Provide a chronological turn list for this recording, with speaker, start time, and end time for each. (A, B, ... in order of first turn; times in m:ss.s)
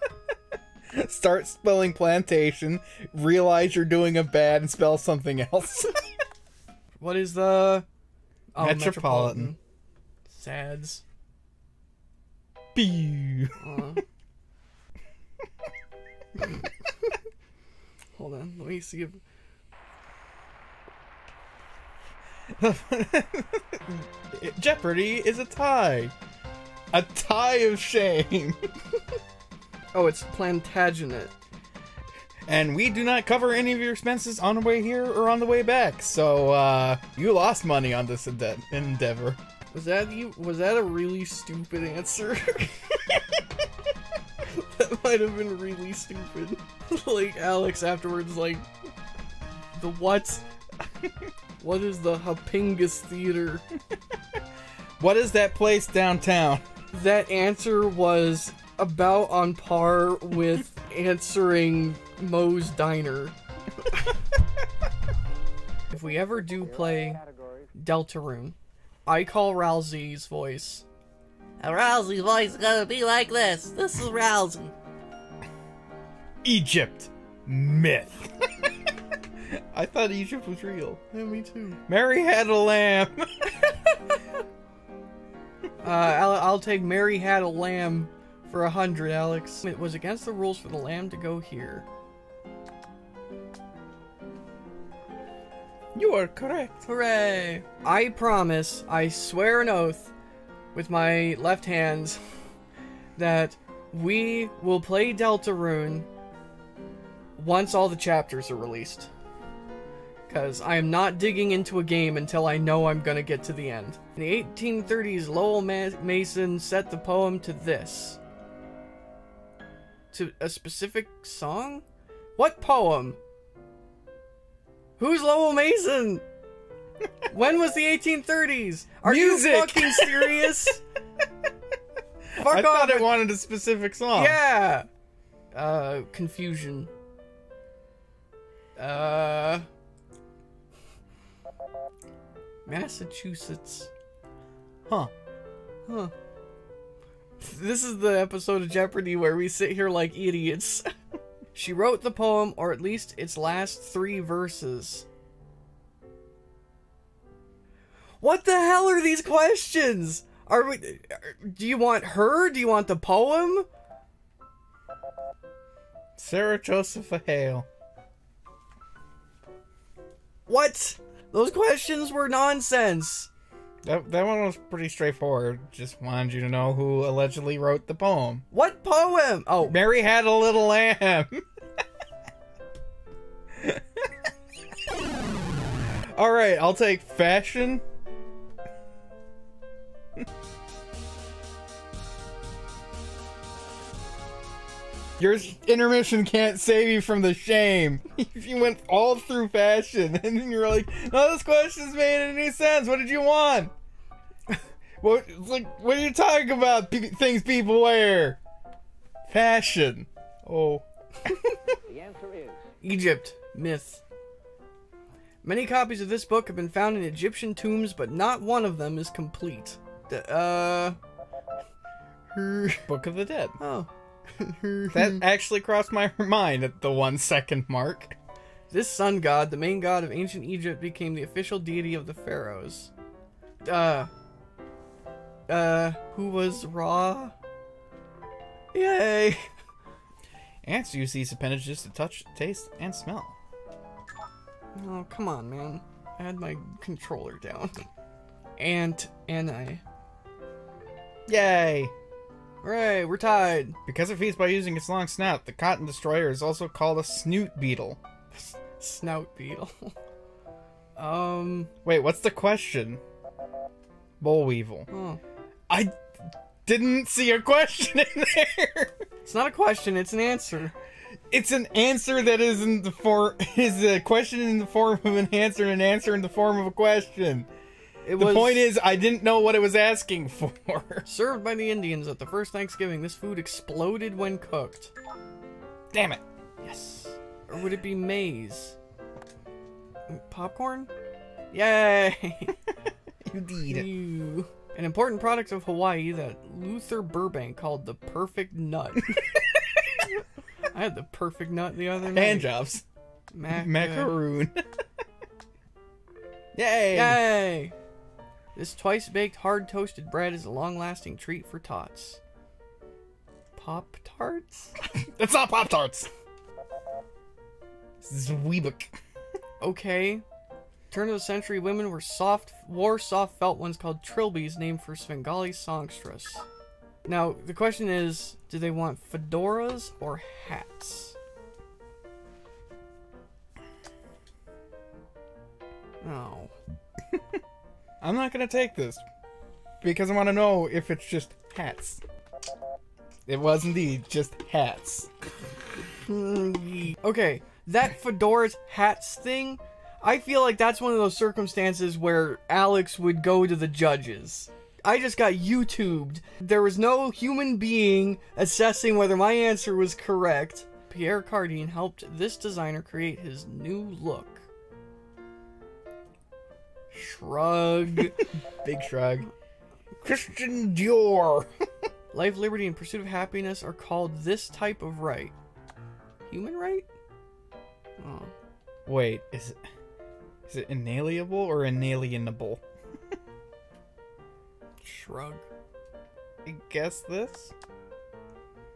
0:00.9-0:06.0 A
0:07.0-0:07.8 B
0:08.5-0:09.6 B
0:08.6-0:09.5 A
0:10.3-0:11.0 B
0:12.8-0:13.6 A
0:13.6-0:14.0 B
0:18.2-0:19.2 B
0:22.6-0:26.1 A
0:26.9-0:28.6 A
0:29.9-0:31.4 B
0:32.5-0:39.4 A
0:39.7-0:43.1 B
0:44.4-0:48.7 B
0:49.8-0:50.4 B
0:51.6-0:53.6 B
0:55.0-0:56.6 A
0:56.9-1:03.4 B
1:05.9-1:07.2 B
1:07.8-1:10.8 B
1:11.6-1:14.7 C
1:16.4-1:18.5 A
1:19.5-1:21.0 A
1:21.1-1:21.8 B
1:21.9-1:23.6 A
1:25.8-1:31.8 B
1:36.0-1:36.8 A
1:36.8-1:40.1 B
1:40.7-1:42.2 B
1:43.2-1:46.1 B
1:47.4-1:49.1 B
1:50.3-1:58.2 B
2:00.1-2:01.8 B
2:02.4-2:03.2 B
2:05.0-2:06.2 B
2:07.3-2:10.8 B
2:09.0-2:10.6 A
2:12.4-2:13.1 B
2:12.4-2:14.4 A
2:14.1-2:14.9 B
2:15.5-2:16.9 B
2:18.8-2:19.7 B
2:22.7-2:23.9 B
2:25.9-2:26.1 B
2:27.4-2:30.9 B
2:31.5-2:35.1 B
2:38.2-2:43.7 B
2:46.2-2:47.7 A
2:50.5-2:53.3 B
2:53.8-2:58.4 A
2:58.5-2:59.8 B
2:59.6-3:01.4 A
3:03.5-3:04.0 A
3:06.1-3:07.8 A
3:15.2-3:23.7 A
3:25.0-3:28.4 A
3:29.3-3:30.8 A
3:32.8-3:34.0 B
3:35.4-3:41.0 B
3:42.3-3:42.8 B
3:42.9-3:43.6 A
3:43.6-3:45.2 B
3:44.9-3:48.2 A
3:48.7-3:52.9 B
3:53.6-3:54.1 B
3:55.5-3:57.4 B
3:58.7-3:59.5 B
4:00.6-4:03.4 A
4:04.8-4:07.9 B
4:08.6-4:09.8 B
4:11.3-4:11.9 A
4:12.6-4:13.8 B
4:13.9-4:18.0 A
4:18.3-4:20.0 B
4:21.0-4:21.7 B
4:21.8-4:23.0 A
4:24.2-4:24.9 A
4:24.9-4:25.2 B
4:25.7-4:26.0 A
4:26.6-4:29.0 A
4:29.2-4:30.7 B
4:31.3-4:37.5 A
4:38.0-4:38.7 B
4:38.2-4:41.0 A
4:41.0-4:44.9 B
4:45.9-4:46.2 A
4:46.6-4:48.8 B
4:50.1-4:50.9 B
4:51.5-4:52.6 B
4:53.2-4:53.9 A
4:53.7-4:59.2 B
5:00.7-5:02.5 B
5:02.1-5:02.8 A
5:03.3-5:04.1 B
5:03.5-5:04.6 A
5:06.6-5:07.3 A
5:06.9-5:07.8 B
5:08.6-5:12.2 B
5:13.6-5:14.8 B
5:14.9-5:16.1 A
5:18.0-5:18.9 A
5:19.6-5:20.2 B
5:20.9-5:26.4 B
5:27.0-5:31.2 B
5:36.0-5:36.6 B
5:38.0-5:39.0 A
5:39.8-5:42.0 A
5:43.3-5:45.1 A
5:46.0-6:04.5 B
6:06.9-6:08.2 B
6:08.6-6:09.3 A
6:10.0-6:11.5 A
6:12.1-6:15.4 B
6:16.3-6:16.9 B
6:18.0-6:18.3 B
6:18.9-6:19.6 A
6:20.5-6:22.6 A
6:24.8-6:25.5 B
6:26.4-6:27.5 A